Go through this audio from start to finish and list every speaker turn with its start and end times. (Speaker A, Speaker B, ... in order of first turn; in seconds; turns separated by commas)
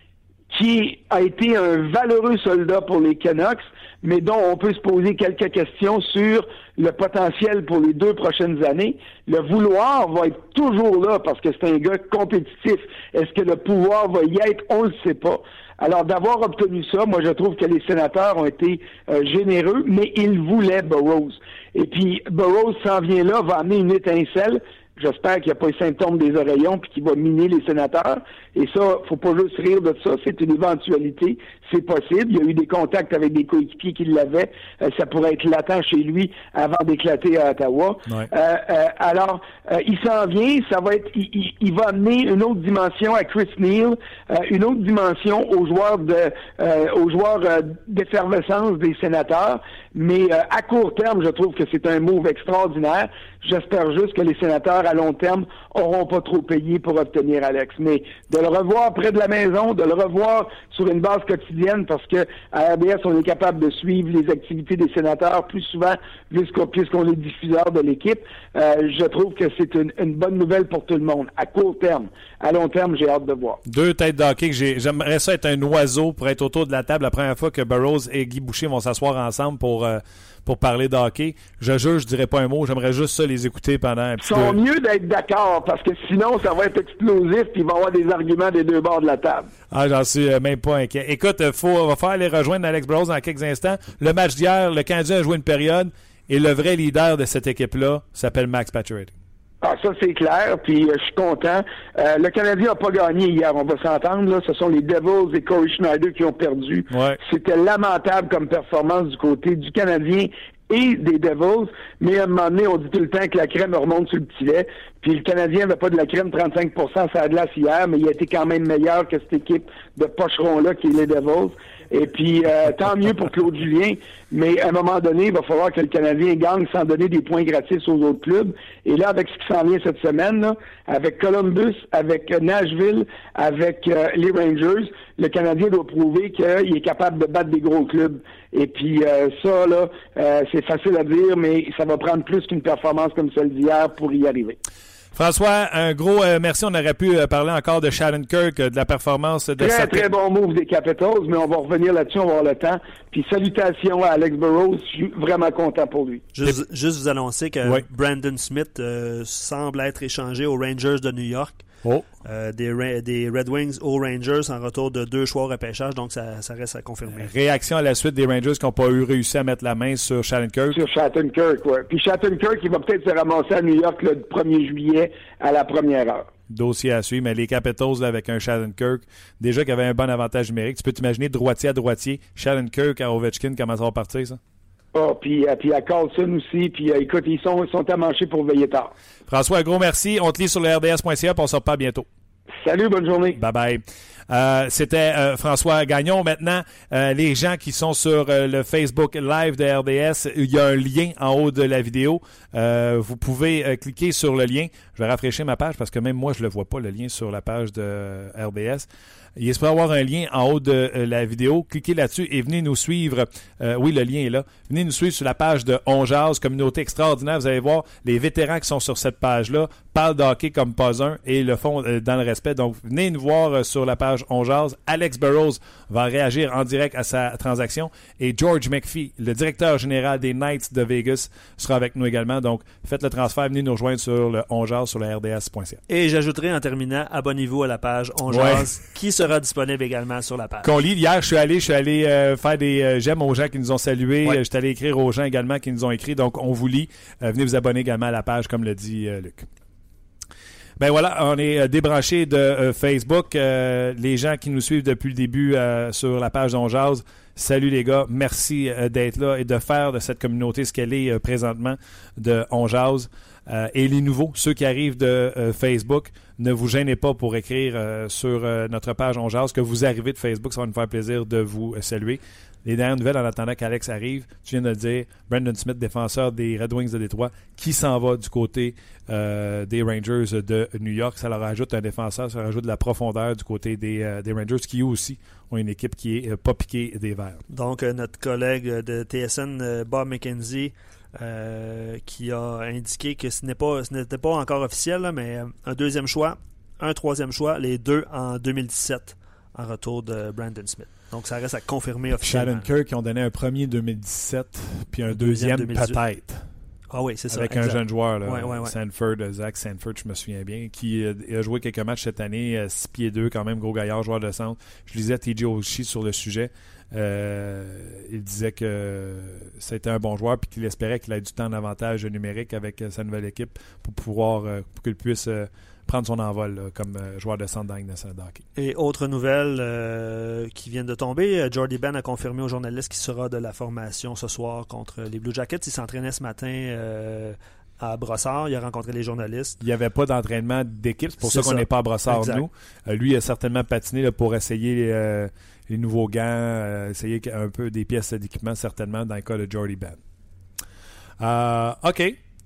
Speaker A: 0.5-73.6, Speaker B: 73.7-84.6, Speaker A: 84.2-89.5, Speaker B: 89.7-99.1, Speaker A: 99.6-144.6, Speaker B: 106.9-107.2, Speaker B: 145.1-150.1, Speaker A: 149.6-156.2, Speaker C: 156.3-161.7, Speaker C: 162.2-167.3, Speaker B: 167.1-170.8, Speaker A: 170.7-176.3, Speaker B: 176.5-184.4, Speaker A: 184.9-188.9, Speaker B: 189.3-192.1, Speaker A: 192.6-193.4, Speaker B: 193.3-235.8, Speaker C: 235.9-240.7, Speaker B: 238.3-238.7, Speaker B: 240.6-249.5, Speaker B: 250.8-287.4, Speaker C: 287.5-302.7, Speaker B: 302.2-306.5, Speaker C: 305.1-306.0, Speaker C: 306.9-308.8, Speaker B: 307.3-328.4, Speaker C: 328.6-339.6, Speaker B: 339.6-350.0, Speaker C: 341.2-342.4, Speaker B: 351.2-352.2